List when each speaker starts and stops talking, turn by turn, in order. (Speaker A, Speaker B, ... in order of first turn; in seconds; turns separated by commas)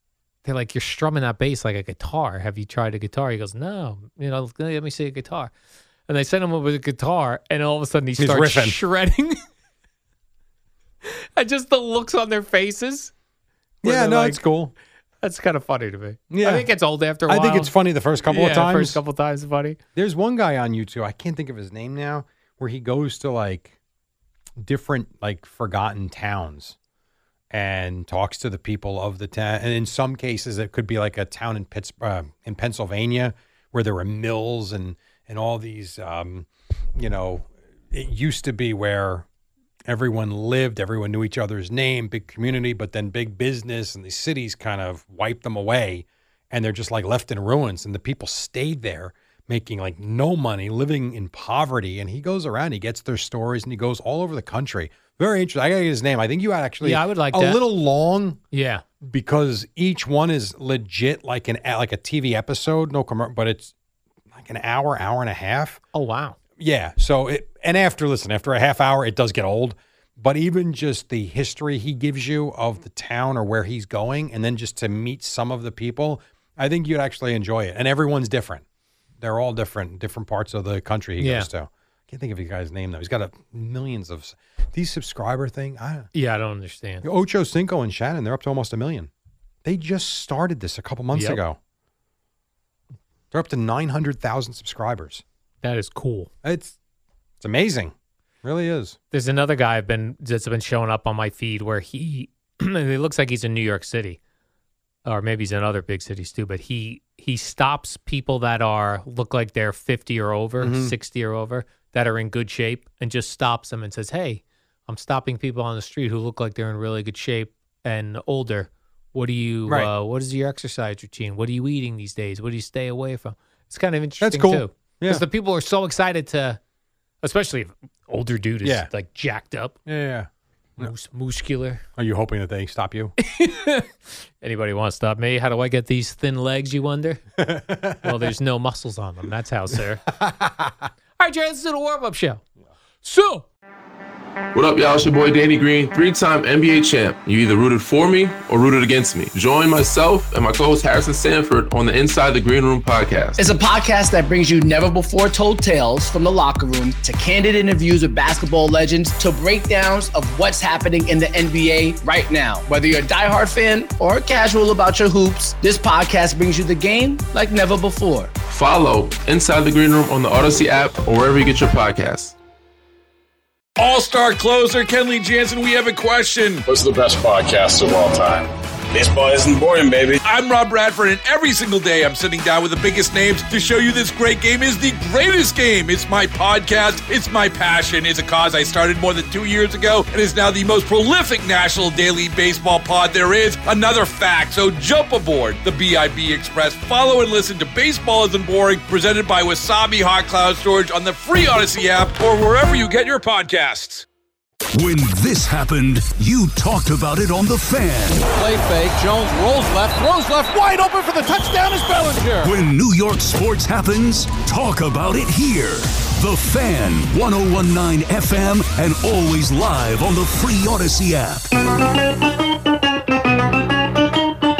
Speaker A: 0.5-5.5, Speaker A: 6.1-9.4, Speaker B: 8.2-8.8, Speaker A: 11.1-13.1, Speaker B: 13.8-14.7, Speaker A: 13.8-14.4, Speaker A: 15.2-17.7, Speaker B: 16.3-16.7, Speaker B: 17.3-19.0, Speaker A: 18.3-19.8, Speaker B: 20.0-23.8, Speaker B: 24.6-26.8, Speaker B: 27.5-39.3, Speaker B: 39.9-58.4, Speaker A: 56.8-57.6, Speaker A: 58.5-58.8, Speaker B: 59.0-63.7, Speaker B: 64.3-65.8, Speaker A: 65.9-66.4, Speaker B: 66.6-78.7, Speaker B: 79.2-86.1, Speaker A: 81.2-81.5, Speaker A: 86.1-87.1, Speaker B: 87.0-89.1, Speaker B: 89.7-91.6, Speaker A: 91.1-91.4, Speaker B: 93.3-95.2, Speaker A: 95.6-96.3, Speaker B: 96.4-96.8, Speaker B: 97.4-99.0, Speaker A: 99.1-104.2, Speaker A: 105.0-126.6, Speaker B: 110.6-111.0, Speaker B: 124.2-125.2, Speaker A: 127.2-129.8, Speaker B: 128.6-128.9, Speaker B: 129.9-130.9, Speaker A: 130.8-131.8, Speaker B: 132.0-133.2, Speaker A: 133.2-137.2, Speaker B: 137.4-138.3, Speaker A: 138.0-140.0, Speaker B: 140.1-140.9, Speaker A: 141.2-142.4, Speaker A: 143.0-143.5, Speaker C: 144.5-153.4, Speaker D: 153.4-168.3, Speaker C: 168.5-172.4, Speaker E: 173.8-176.7, Speaker F: 176.7-180.2, Speaker E: 180.2-204.1, Speaker G: 204.7-208.3, Speaker G: 212.4-221.5